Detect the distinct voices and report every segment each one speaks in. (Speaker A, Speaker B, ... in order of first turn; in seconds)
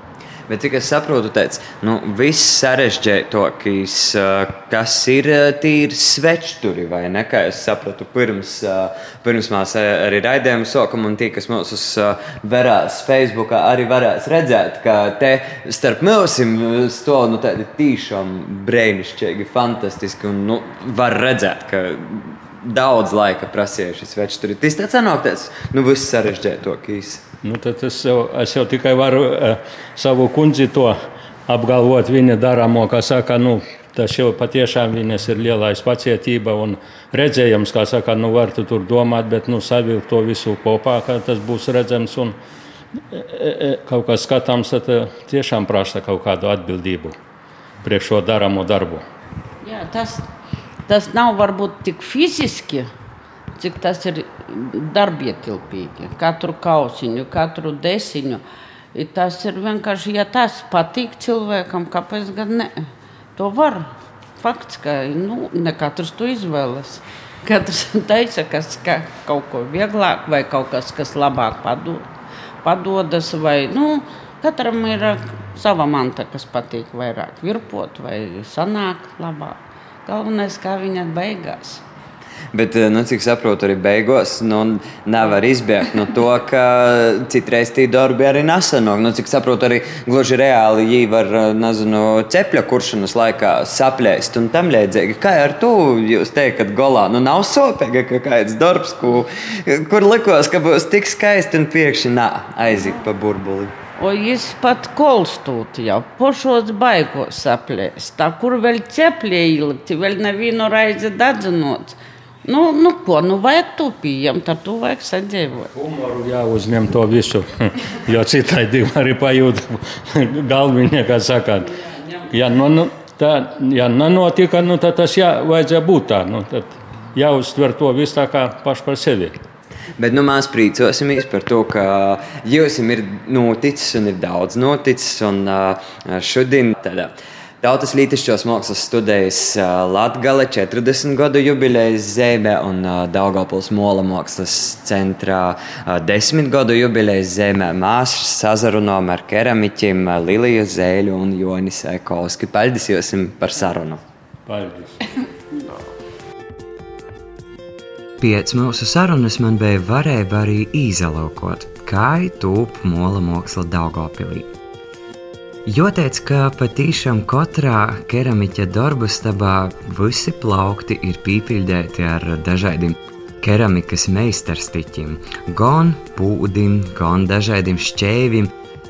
Speaker A: 0.5-27.2, 82.5-103.8, 130.0-154.0, 158.2-164.5, 165.7-178.5
Speaker B: 27.4-31.0, 31.5-42.4, 43.1-47.1, 47.8-49.0, 115.8-121.8, 122.3-129.4, 154.5-155.0
Speaker C: 49.6-50.3, 50.9-52.9, 53.6-58.4, 58.9-72.1, 72.6-81.8, 104.0-115.7